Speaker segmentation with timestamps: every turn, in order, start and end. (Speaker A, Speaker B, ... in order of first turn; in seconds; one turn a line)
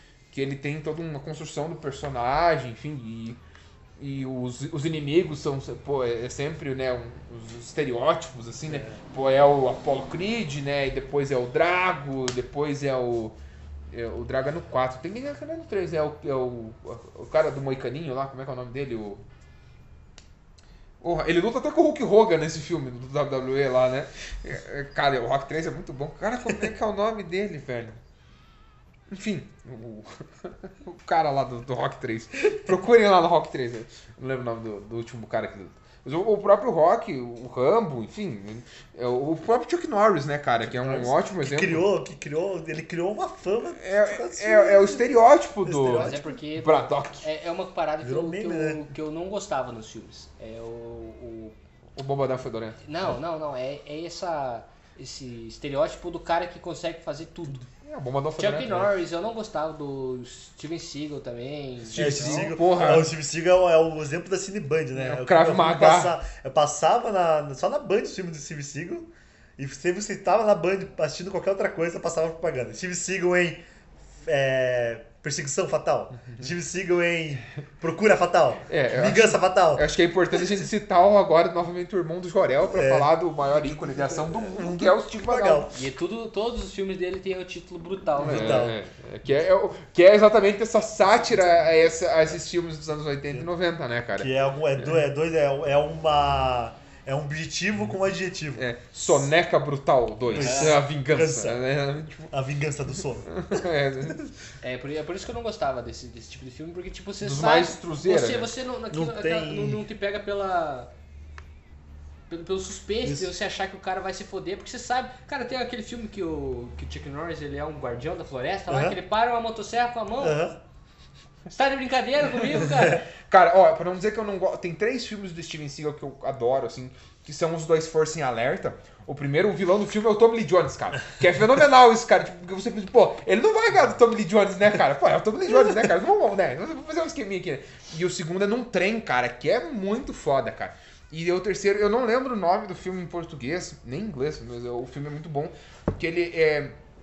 Speaker A: 0.3-3.4
Speaker A: 4.0-13.4
Speaker B: 8.7-9.0
Speaker A: 13.9-19.2
Speaker A: 21.0-28.0
Speaker A: 29.1-41.9
Speaker B: 40.6-45.1
Speaker A: 43.8-47.2
Speaker B: 45.6-46.4
Speaker C: 45.9-51.5
Speaker B: 48.0-48.8
Speaker A: 52.0-52.8
Speaker C: 52.8-57.6
Speaker A: 57.8-58.9
Speaker C: 58.4-62.5
Speaker A: 61.9-63.1
Speaker B: 61.9-73.6
Speaker A: 64.9-66.2
Speaker B: 74.2-79.9
Speaker A: 76.2-76.5
Speaker A: 78.7-85.8
Speaker B: 82.7-85.7
Speaker C: 85.7-88.7
Speaker B: 88.2-88.8
Speaker A: 88.2-95.0
Speaker B: 94.2-98.6
Speaker A: 98.5-102.3
Speaker B: 100.3-101.6
Speaker C: 100.4-100.8
Speaker B: 102.3-103.6
Speaker A: 103.3-104.3
Speaker C: 104.6-110.9
Speaker A: 107.2-108.5
Speaker B: 108.9-109.8
Speaker C: 112.3-120.4
Speaker B: 113.0-113.3
Speaker B: 118.7-119.0
Speaker B: 120.2-120.6
Speaker C: 121.5-123.0
Speaker A: 123.2-146.8